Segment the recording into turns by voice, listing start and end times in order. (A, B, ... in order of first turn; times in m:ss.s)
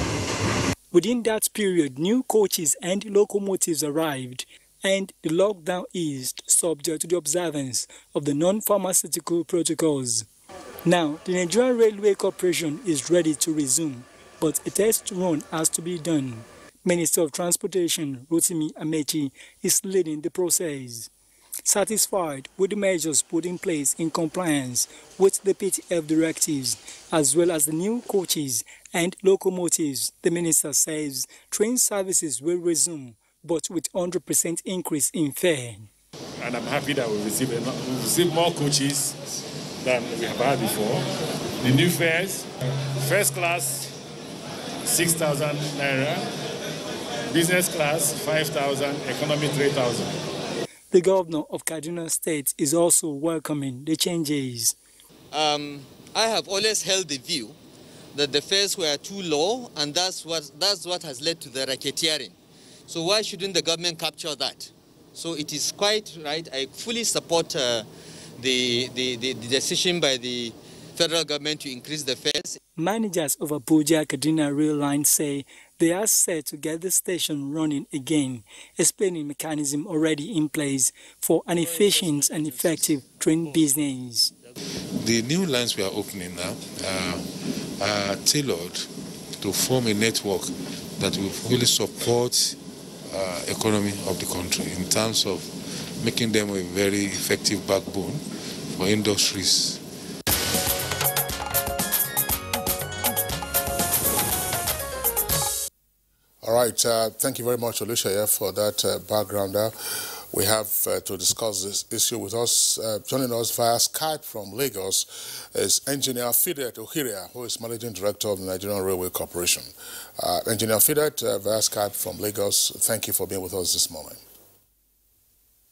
0:00.9-0:10.3 A
0:10.8-0:21.1 A
0:21.6-0:35.9 A
0:36.4-0:39.2 B
0:39.8-0:41.1 B
0:41.6-0:43.9 B
0:44.8-0:46.3 B
0:47.3-0:50.1 B
0:50.9-0:54.8 A
0:55.3-0:57.6 C
0:58.1-1:02.4 C
1:02.9-1:12.6 C
1:12.8-1:24.3 A
1:24.9-1:28.9 D
1:29.4-1:39.8 D
1:46.4-2:04.2 E